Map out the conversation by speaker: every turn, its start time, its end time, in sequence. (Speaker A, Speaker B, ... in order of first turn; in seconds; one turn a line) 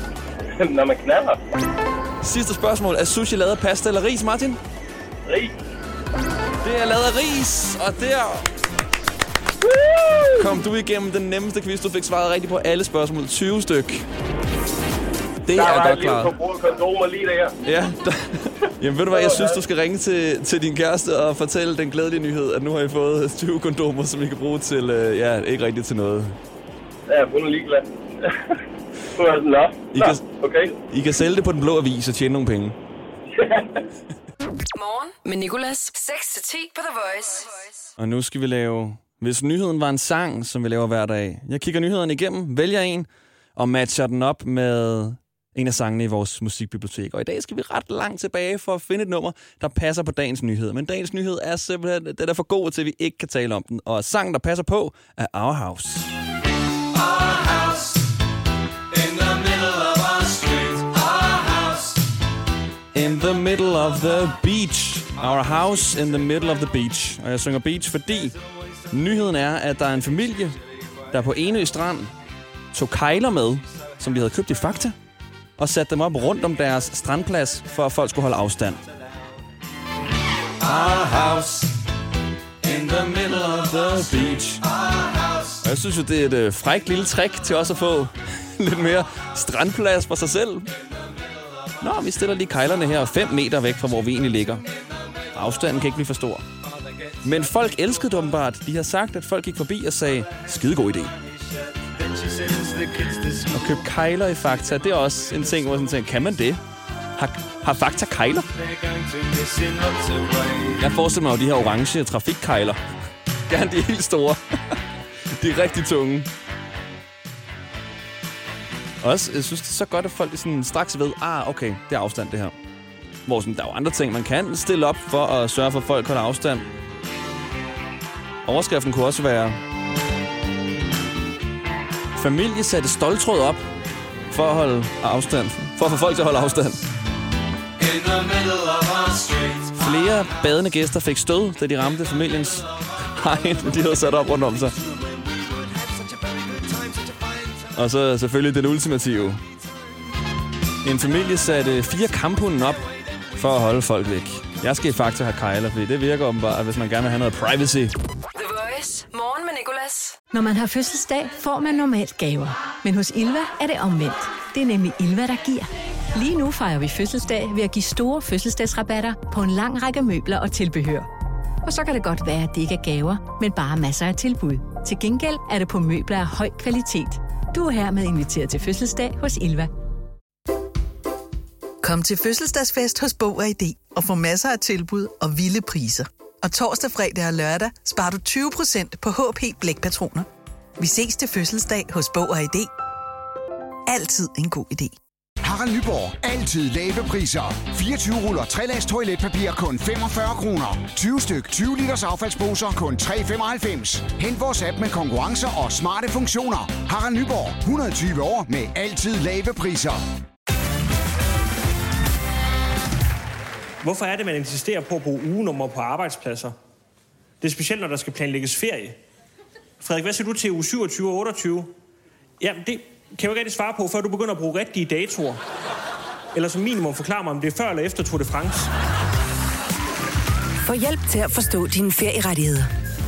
Speaker A: 0.5-1.4
Speaker B: 2.2-4.6
Speaker A: 5.2-5.5
Speaker B: 6.6-8.4
Speaker A: 9.6-10.6
Speaker B: 10.4-14.1
Speaker B: 15.4-16.3
Speaker A: 15.5-17.5
Speaker B: 17.6-26.4
Speaker A: 19.1-19.6
Speaker A: 27.1-28.5
Speaker A: 29.1-30.8
Speaker B: 29.9-30.2
Speaker B: 30.9-32.8
Speaker A: 33.4-33.7
Speaker C: 34.7-37.9
Speaker B: 38.0-56.1
Speaker B: 59.1-61.2
Speaker B: 62.9-68.3
Speaker B: 68.9-70.6
Speaker B: 71.1-72.1
Speaker B: 72.7-75.0
Speaker B: 75.6-78.8
Speaker B: 80.6-81.7
Speaker B: 82.6-84.7
Speaker B: 85.6-90.7
Speaker B: 91.8-94.6
Speaker B: 95.3-96.4
Speaker B: 97.2-101.1
Speaker B: 102.5-106.6
Speaker B: 107.2-108.5
Speaker B: 110.6-112.8
Speaker B: 113.5-114.4
Speaker B: 115.4-116.3
Speaker B: 119.0-122.5
Speaker B: 123.2-126.7
Speaker B: 128.4-129.6
Speaker B: 132.2-133.7
Speaker B: 134.3-136.8
Speaker B: 139.2-144.8
Speaker B: 147.7-149.4
Speaker B: 150.8-157.9
Speaker C: 158.3-160.2
Speaker D: 160.3-171.1
Speaker D: 171.6-179.7
Speaker E: 181.8-190.3
Speaker E: 190.8-192.7
Speaker E: 193.9-194.9
Speaker F: 195.4-210.0
Speaker G: 213.8-216.5
Speaker G: 217.4-219.0
Speaker G: 219.8-221.7
Speaker G: 222.4-225.4
Speaker G: 226.3-228.7
Speaker H: 230.6-232.7